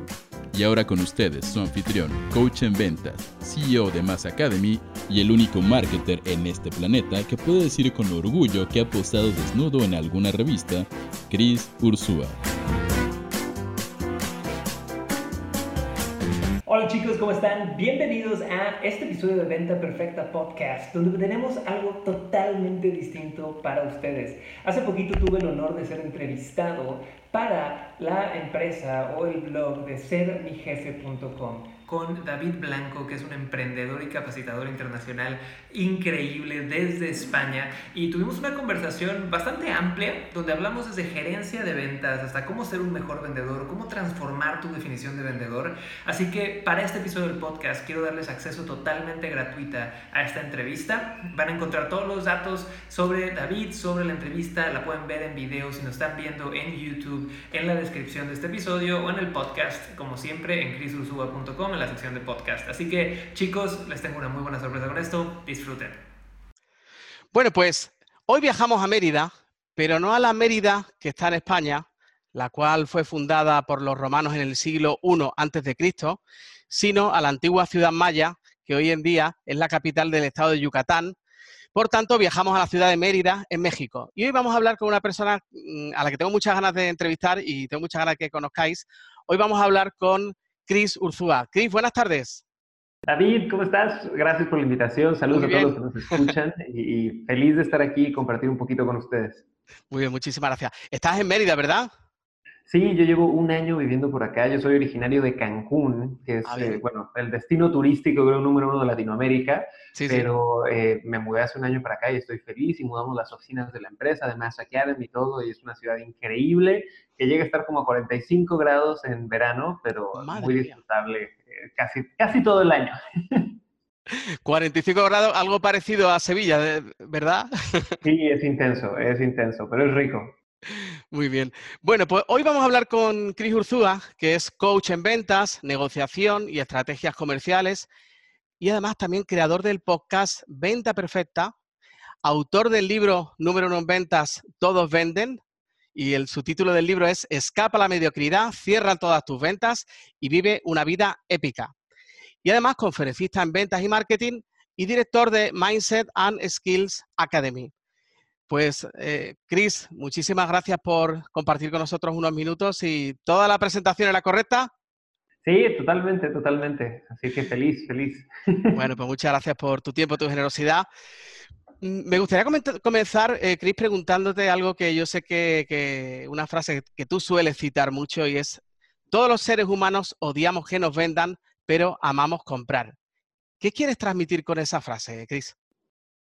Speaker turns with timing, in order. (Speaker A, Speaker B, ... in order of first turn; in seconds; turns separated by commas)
Speaker A: 0.5-12.4, Speaker B: 16.7-66.0, Speaker C: 67.3-81.2, Speaker C: 81.8-92.4, Speaker B: 93.1-99.5, Speaker C: 95.3-96.3, Speaker C: 99.9-101.9, Speaker B: 102.7-123.5, Speaker C: 106.5-106.8, Speaker C: 109.9-110.3, Speaker C: 120.2-120.8, Speaker C: 124.1-128.0, Speaker B: 128.0-130.3, Speaker C: 130.7-137.9, Speaker C: 138.6-141.5, Speaker C: 142.2-145.4, Speaker C: 145.9-151.7, Speaker C: 152.4-157.7, Speaker C: 158.5-164.7, Speaker B: 165.4-168.8, Speaker C: 168.8-170.9, Speaker C: 171.8-182.9, Speaker C: 183.6-185.6